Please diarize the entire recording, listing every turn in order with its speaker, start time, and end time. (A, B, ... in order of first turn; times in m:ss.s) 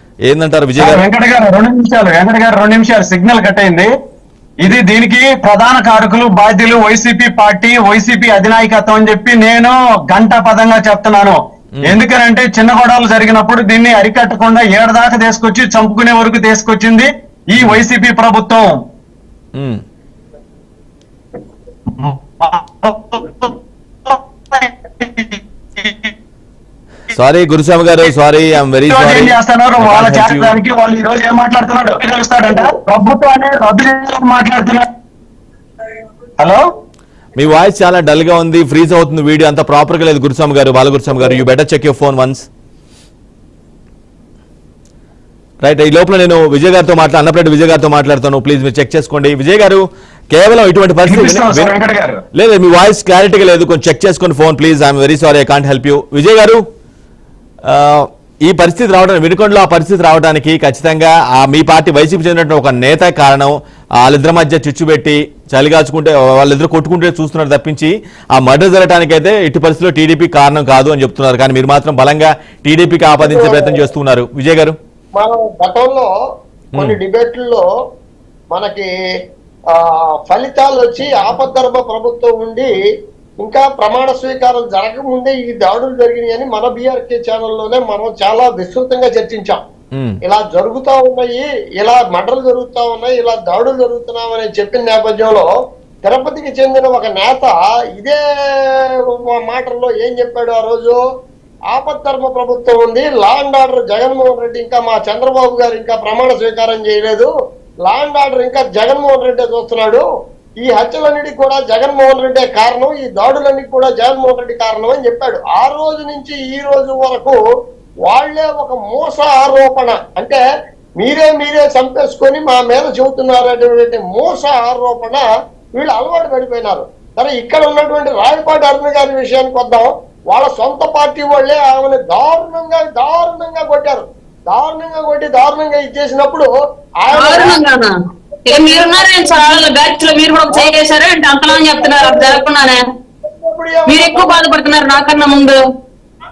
0:00.3-0:01.0 A
0:00.8-0:03.9 B
0:04.6-0:18.8 B
0:17.6-0:17.8 A
0:19.6-0:19.8 A
0:22.0-0:23.6 B
0:24.1-0:26.1 B
0:27.1-0:30.6 A
0:28.9-0:34.9 B
0:36.4-0:36.7 B
0:37.4-0:42.5 A
0:45.6-0:51.7 A
0:51.1-0:52.2 B
0:52.3-0:56.6 A
0:57.7-1:14.8 A
1:13.2-1:13.8 C
1:15.2-1:16.1 C
1:16.8-1:17.6 C
1:18.5-1:18.9 C
1:19.7-1:22.7 C
1:23.4-1:29.6 C
1:30.2-1:35.5 C
1:36.0-1:41.0 C
1:41.7-1:47.3 C
1:47.8-1:50.0 C
1:50.6-1:57.4 C
1:58.0-2:00.4 C
2:01.0-2:17.6 C
2:17.1-2:17.9 D
2:18.4-2:19.7 C
2:18.5-2:22.8 D
2:20.5-2:20.8 C
2:21.5-2:22.5 C
2:23.2-2:25.0 C
2:23.9-2:25.6 D